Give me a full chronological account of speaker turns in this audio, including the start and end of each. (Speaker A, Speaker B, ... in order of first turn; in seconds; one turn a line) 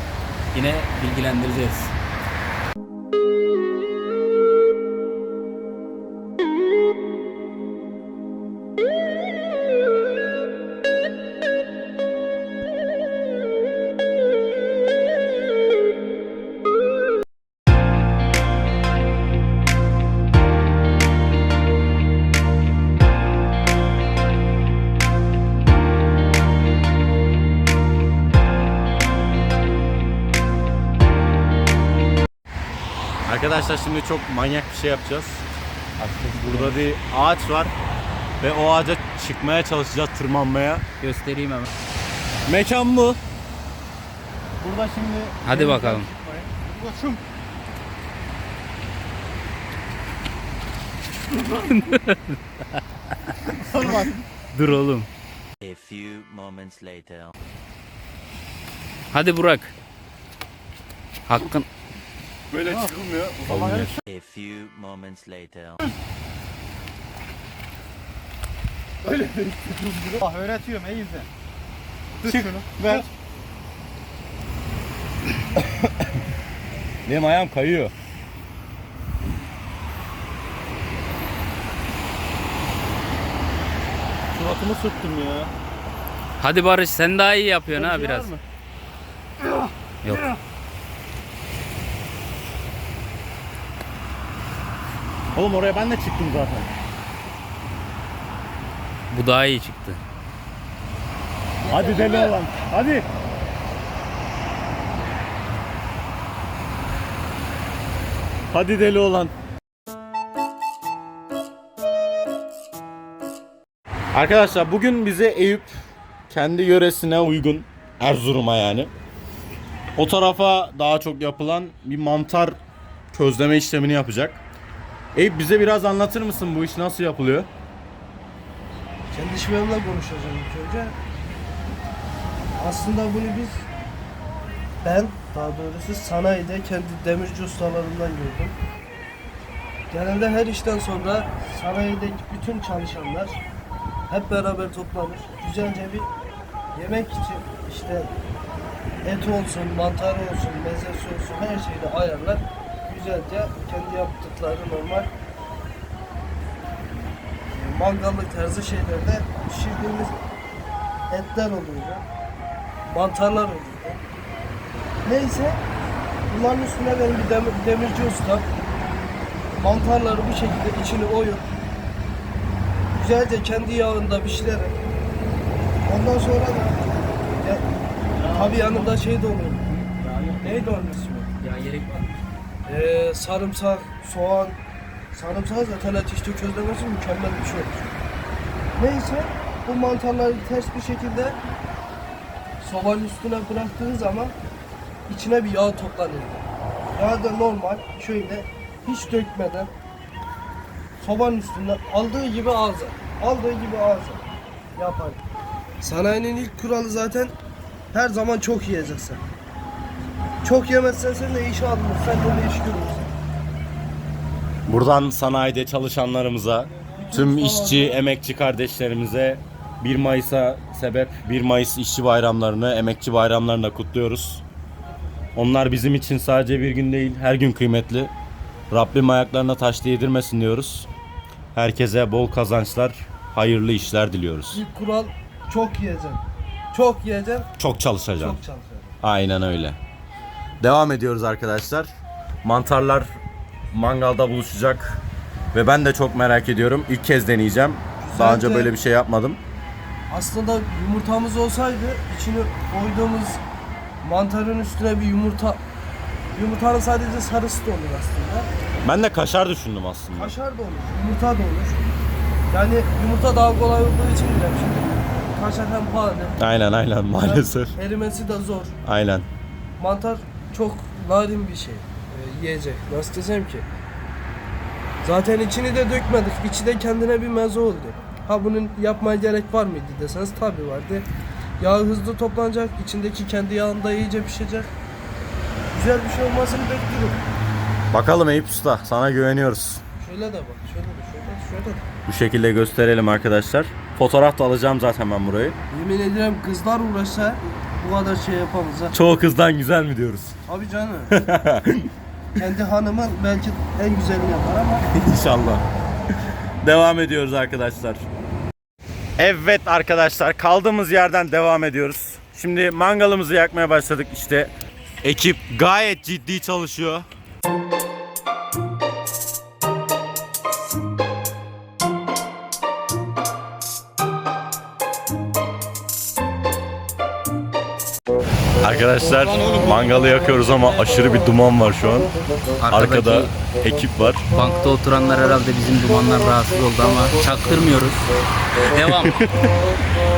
Speaker A: 0.5-1.9
Speaker B: 33.2-35.4
Speaker A: 36.0-36.8
Speaker B: 36.3-37.7
Speaker B: 38.4-40.8
Speaker A: 41.0-41.7
Speaker B: 42.5-43.2
Speaker B: 44.6-45.5
Speaker C: 45.3-47.2
Speaker A: 45.4-46.1
Speaker A: 51.3-52.4
Speaker C: 53.6-54.1
Speaker A: 54.5-55.1
Speaker D: 55.6-57.3
Speaker A: 59.1-59.7
Speaker A: 61.3-61.7
Speaker B: 62.5-64.0
Speaker C: 63.4-64.0
Speaker D: 64.1-65.8
Speaker C: 69.7-71.3
Speaker C: 72.2-73.0
Speaker B: 72.2-73.1
Speaker B: 77.0-77.9
Speaker B: 84.3-85.5
Speaker A: 86.4-88.3
Speaker B: 87.7-88.4
Speaker B: 95.3-96.7
Speaker A: 99.1-100.0
Speaker E: 101.6-102.3
Speaker B: 101.7-103.1
Speaker B: 108.5-109.3
Speaker B: 114.1-115.7
Speaker B: 116.3-118.9
Speaker B: 120.0-122.6
Speaker B: 123.1-124.4
Speaker B: 125.1-127.5
Speaker E: 129.1-130.9
Speaker E: 132.6-133.7
Speaker E: 134.8-138.6
Speaker E: 139.9-143.4
Speaker E: 144.1-146.1
Speaker E: 146.7-148.1
Speaker E: 149.0-155.1
Speaker E: 157.5-160.2
Speaker E: 161.1-162.0
Speaker E: 162.9-164.0
Speaker E: 165.0-165.6
Speaker E: 166.3-168.5
Speaker E: 169.6-171.5
Speaker E: 172.9-174.8
Speaker E: 175.8-177.6
Speaker B: 178.2-179.0
Speaker E: 178.3-179.7
Speaker B: 179.8-180.5
Speaker E: 180.4-181.3
Speaker A: 181.4-182.1
Speaker E: 182.7-184.6
Speaker E: 185.1-187.9
Speaker E: 188.7-191.4
Speaker E: 192.6-194.3
Speaker E: 195.1-199.7
Speaker E: 201.0-204.2
Speaker E: 204.7-205.2
Speaker E: 205.8-207.3
Speaker E: 207.9-209.2
Speaker E: 210.4-213.1
Speaker B: 214.7-224.4
Speaker E: 217.0-218.0
Speaker B: 225.3-228.1
Speaker B: 228.7-230.9
Speaker B: 231.5-234.6
Speaker E: 234.5-237.5
Speaker B: 237.6-238.4
Speaker E: 238.2-238.9
Speaker B: 239.0-239.8
Speaker B: 240.6-241.9
Speaker B: 242.4-243.1
Speaker B: 243.7-245.0
Speaker B: 245.5-249.4
Speaker E: 248.0-248.7
Speaker E: 250.1-253.4
Speaker E: 254.0-255.6
Speaker E: 256.3-258.5
Speaker B: 258.8-260.3
Speaker E: 260.1-261.9
Speaker E: 262.5-266.4
Speaker B: 266.4-267.7
Speaker E: 267.2-268.7
Speaker B: 268.8-269.3
Speaker E: 269.8-273.6
Speaker E: 275.0-281.1
Speaker E: 281.6-284.7
Speaker E: 285.7-287.2
Speaker B: 287.9-289.8
Speaker E: 290.0-291.9
Speaker B: 292.1-295.6
Speaker E: 295.7-298.9
Speaker B: 298.9-300.4
Speaker E: 300.5-301.2
Speaker B: 301.1-301.9
Speaker E: 302.4-304.9
Speaker B: 304.9-305.6
Speaker B: 306.6-308.0
Speaker B: 309.2-314.5
Speaker B: 315.0-317.1
Speaker B: 328.6-332.1
Speaker C: 329.4-329.7
Speaker A: 332.6-333.3
Speaker B: 332.7-334.2
Speaker A: 334.3-339.2
Speaker B: 338.9-339.3